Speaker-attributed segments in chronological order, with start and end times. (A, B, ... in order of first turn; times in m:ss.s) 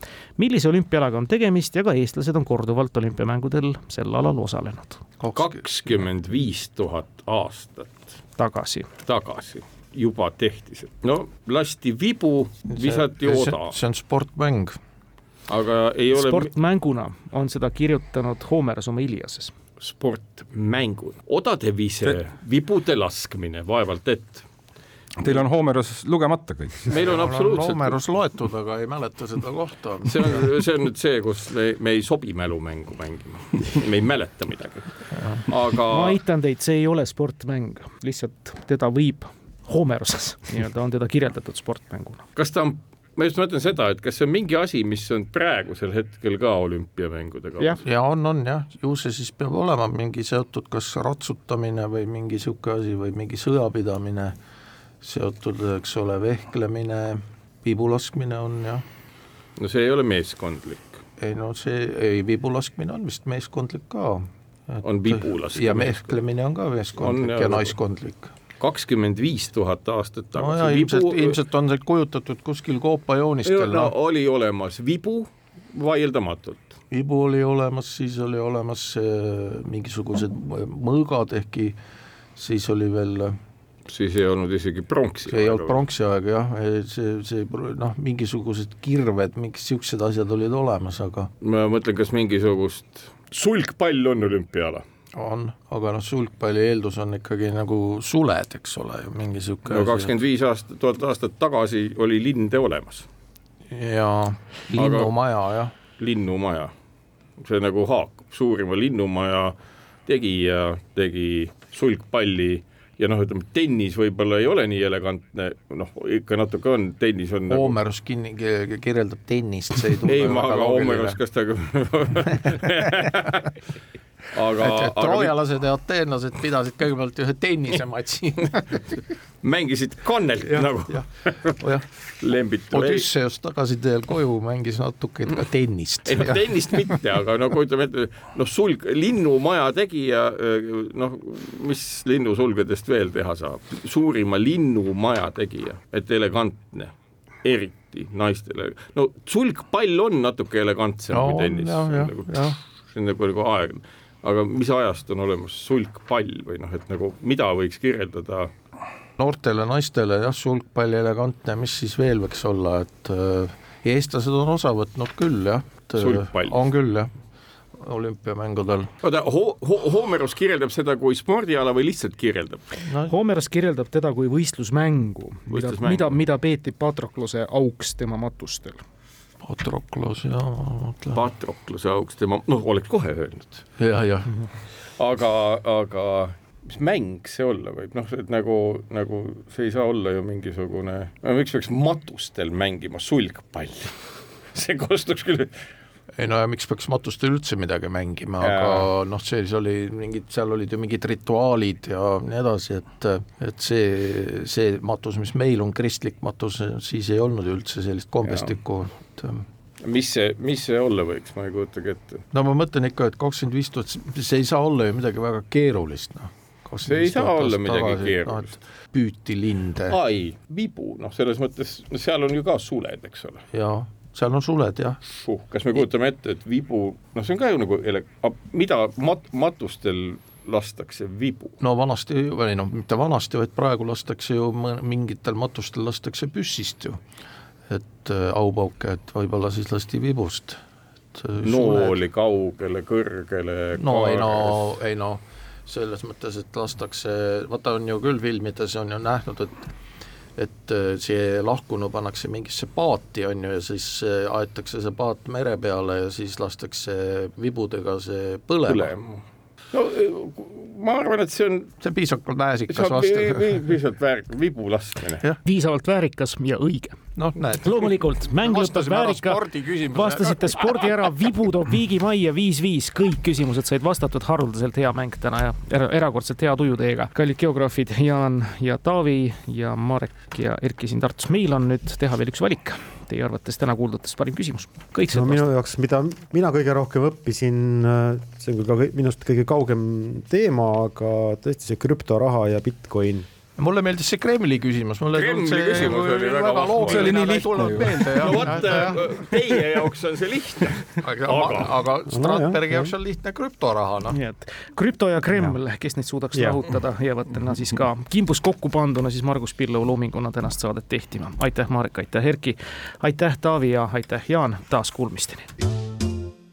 0:00.4-0:05.0 A
0:05.2-0:05.6 B
0:05.3-0:08.2 C
0:08.4-0:08.9 A
0:09.0-0:13.8 C
0:12.7-0:14.8 B
0:15.5-0:16.5 C
0:16.1-0:19.5 A
0:19.8-0:24.4 C
0:25.2-0:26.9 D
0:26.9-0:28.0 C
0:26.9-0:30.4 B
0:30.0-0:36.2 C
0:35.1-0:35.4 B
0:35.9-0:42.2 A
0:42.4-0:47.8 C
0:47.8-0:54.4 B
0:55.0-0:58.8 B
0:59.6-1:01.0 C
1:01.2-1:08.3 B
1:04.8-1:06.2 C
1:07.0-1:07.8 C
1:08.6-1:11.4 C
1:10.4-1:13.9 B
1:13.4-1:16.7 C
1:16.9-1:21.8 B
1:22.4-1:23.4 B
1:23.9-1:25.8 C
1:25.3-1:31.3 B
1:31.4-1:34.8 C
1:35.1-1:40.1 B
1:39.7-1:43.1 C
1:43.7-1:45.7 B
1:44.7-1:45.1 C
1:46.0-1:46.7 C
1:47.4-1:57.8 C
1:57.5-2:01.2 B
2:00.0-2:03.5 C
2:04.3-2:05.4 C
2:04.6-2:09.0 B
2:09.4-2:11.6 C
2:10.4-2:11.8 B
2:12.2-2:13.1 C
2:12.7-2:17.0 B
2:16.0-2:26.9 C
2:27.4-2:38.5 C
2:31.1-2:32.6 B
2:39.2-2:47.1 B
2:46.0-2:46.6 C
2:47.8-2:48.9 B
2:49.0-2:52.6 C
2:52.8-2:53.1 B
2:53.1-2:58.8 A
2:55.5-2:56.2 C
2:59.4-3:01.2 B
3:01.1-3:03.6 C
3:03.8-3:04.5 B
3:05.0-3:14.0 C
3:14.5-3:15.6 C
3:16.2-3:29.4 B
3:18.4-3:18.9 C
3:28.2-3:28.5 C
3:29.8-3:32.2 C
3:32.3-3:40.0 B
3:36.8-3:38.5 C
3:39.9-3:43.4 C
3:43.5-3:45.0 B
3:45.2-3:51.6 C
3:51.6-3:57.0 B
3:57.7-4:00.6 B
4:01.1-4:02.0 B
4:01.4-4:04.7 C
4:03.8-4:09.7 B
4:10.4-4:18.9 B
4:18.6-4:21.8 C
4:21.8-4:23.6 B
4:22.7-4:25.2 C
4:25.4-4:45.5 A
4:27.2-4:30.9 B
4:45.1-4:53.3 E
4:53.6-4:59.2 B
4:55.1-4:57.3 C
4:56.8-4:58.2 D
4:57.9-5:01.8 C
5:01.0-5:04.2 B
5:02.1-5:02.9 E
5:04.1-5:15.5 A
5:06.3-5:06.6 E